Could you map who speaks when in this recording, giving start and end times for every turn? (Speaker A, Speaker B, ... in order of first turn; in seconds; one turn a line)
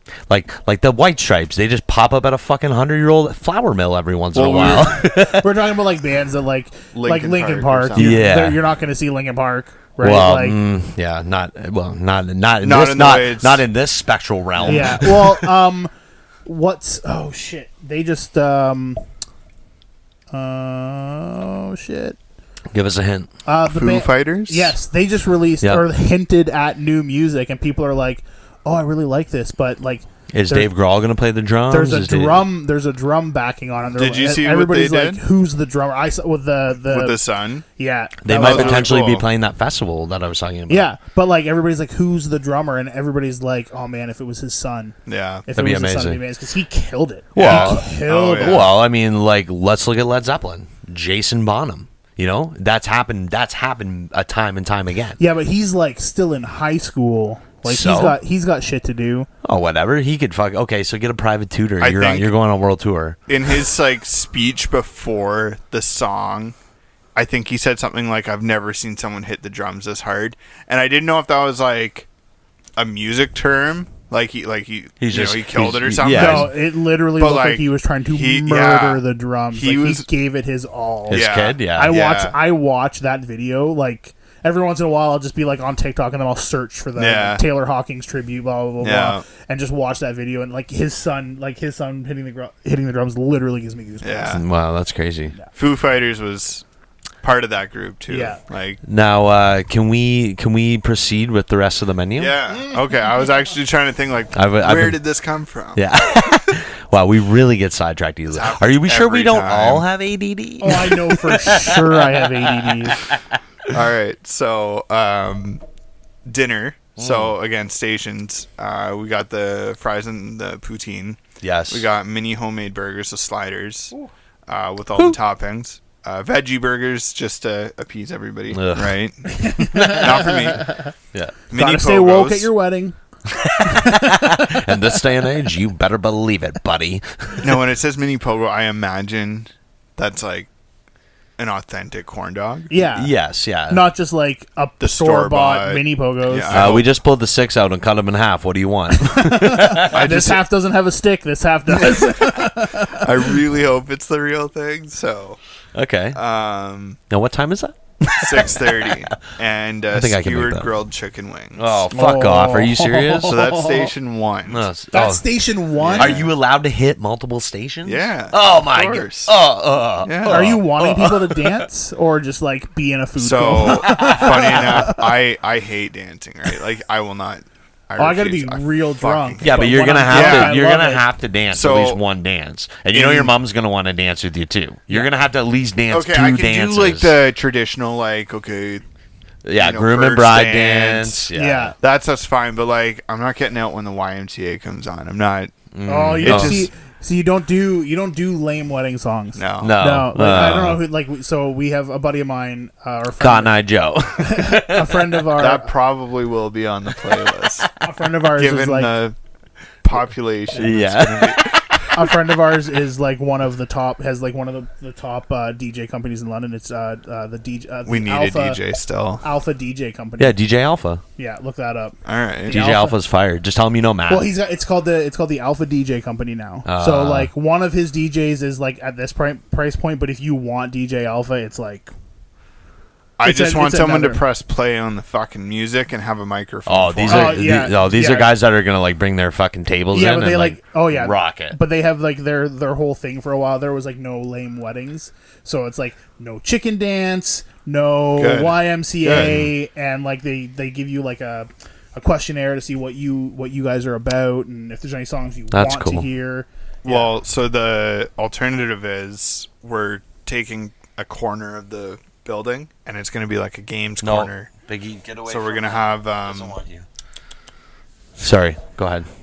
Speaker A: 0.3-5.5
Speaker B: 4.3-4.9
Speaker C: 4.6-10.6
Speaker B: 6.9-8.3
Speaker A: 8.0-8.6
Speaker A: 10.0-15.5
Speaker B: 12.6-13.7
Speaker B: 14.6-15.0
Speaker C: 14.6-15.9
Speaker C: 16.4-19.0
Speaker C: 20.3-22.2
Speaker A: 22.7-23.3
Speaker C: 23.4-30.7
Speaker B: 23.7-24.7
Speaker A: 30.3-32.5
Speaker C: 31.7-37.2
Speaker B: 34.0-35.2
Speaker B: 36.8-37.6
Speaker C: 37.8-39.0
Speaker A: 38.2-40.9
Speaker B: 38.3-39.2
Speaker C: 40.7-48.7
Speaker B: 45.0-45.5
Speaker A: 45.5-46.2
Speaker A: 47.3-55.2
Speaker B: 47.4-48.7
Speaker C: 55.2-59.3
Speaker A: 57.6-58.2
Speaker A: 59.4-63.2
Speaker B: 61.8-62.3
Speaker B: 63.3-66.5
Speaker B: 67.1-72.1
Speaker B: 72.8-80.1
Speaker A: 75.0-76.5
Speaker C: 76.0-94.4
Speaker A: 81.1-82.0
Speaker B: 81.1-82.3
Speaker B: 87.0-87.4
Speaker B: 88.8-89.2
Speaker B: 94.0-94.4
Speaker A: 94.2-95.3
Speaker B: 95.5-96.6
Speaker B: 97.2-98.8
Speaker C: 98.1-98.4
Speaker A: 98.8-102.3
Speaker B: 102.2-105.8
Speaker A: 104.3-105.0
Speaker A: 105.7-113.4
Speaker B: 108.3-109.9
Speaker C: 110.6-113.0
Speaker B: 113.7-115.6
Speaker B: 116.2-123.9
Speaker A: 117.0-117.3
Speaker A: 121.4-121.9
Speaker B: 124.5-130.8
Speaker A: 128.5-129.0
Speaker C: 129.2-130.9
Speaker A: 129.8-130.2
Speaker B: 131.5-132.5
Speaker C: 131.5-133.0
Speaker A: 133.3-137.6
Speaker C: 133.6-134.9
Speaker B: 137.4-140.5
Speaker B: 141.4-142.7
Speaker C: 142.7-143.1
Speaker A: 142.9-143.9
Speaker C: 143.7-146.8
Speaker B: 144.8-146.9
Speaker A: 146.5-150.0
Speaker C: 148.9-153.1
Speaker B: 149.9-150.4
Speaker B: 152.9-155.4
Speaker A: 155.7-156.2
Speaker B: 156.1-157.0
Speaker A: 157.1-159.1
Speaker B: 158.1-161.8
Speaker A: 159.9-160.7
Speaker A: 161.6-163.4
Speaker C: 161.9-163.9
Speaker B: 163.3-164.7
Speaker A: 164.5-165.2
Speaker C: 164.9-166.2
Speaker B: 165.8-166.3
Speaker A: 165.9-171.6
Speaker B: 167.8-169.3
Speaker B: 170.0-170.6
Speaker C: 170.3-175.0
Speaker B: 173.2-180.6
Speaker A: 173.6-174.8
Speaker C: 178.0-181.0
Speaker A: 179.4-187.2
Speaker B: 181.5-182.0
Speaker B: 182.9-183.3
Speaker B: 185.9-188.8
Speaker A: 189.4-191.7
Speaker B: 189.6-191.2
Speaker C: 191.3-191.7
Speaker B: 191.8-195.5
Speaker A: 195.7-196.7
Speaker C: 195.8-203.6
Speaker B: 196.2-196.7
Speaker B: 199.3-199.8
Speaker A: 199.6-200.8
Speaker A: 203.2-205.2
Speaker C: 204.2-205.7
Speaker B: 205.4-207.7
Speaker A: 207.0-207.7
Speaker C: 207.8-209.0
Speaker B: 208.3-209.1
Speaker B: 209.8-211.6
Speaker A: 210.5-212.0
Speaker C: 211.9-218.6
Speaker B: 217.8-219.2
Speaker C: 219.2-220.4
Speaker A: 220.2-221.0
Speaker C: 221.2-222.9
Speaker B: 222.0-222.5
Speaker A: 222.5-224.3
Speaker C: 224.1-231.9
Speaker A: 226.7-227.3
Speaker B: 233.2-237.5
Speaker C: 233.2-234.2
Speaker A: 236.7-241.6
Speaker C: 237.1-238.3
Speaker C: 239.9-257.1
Speaker B: 248.2-249.4
Speaker A: 249.0-249.5
Speaker A: 255.5-256.1
Speaker B: 256.8-264.5
Speaker A: 264.0-266.9
Speaker B: 265.3-266.5
Speaker A: 268.2-269.1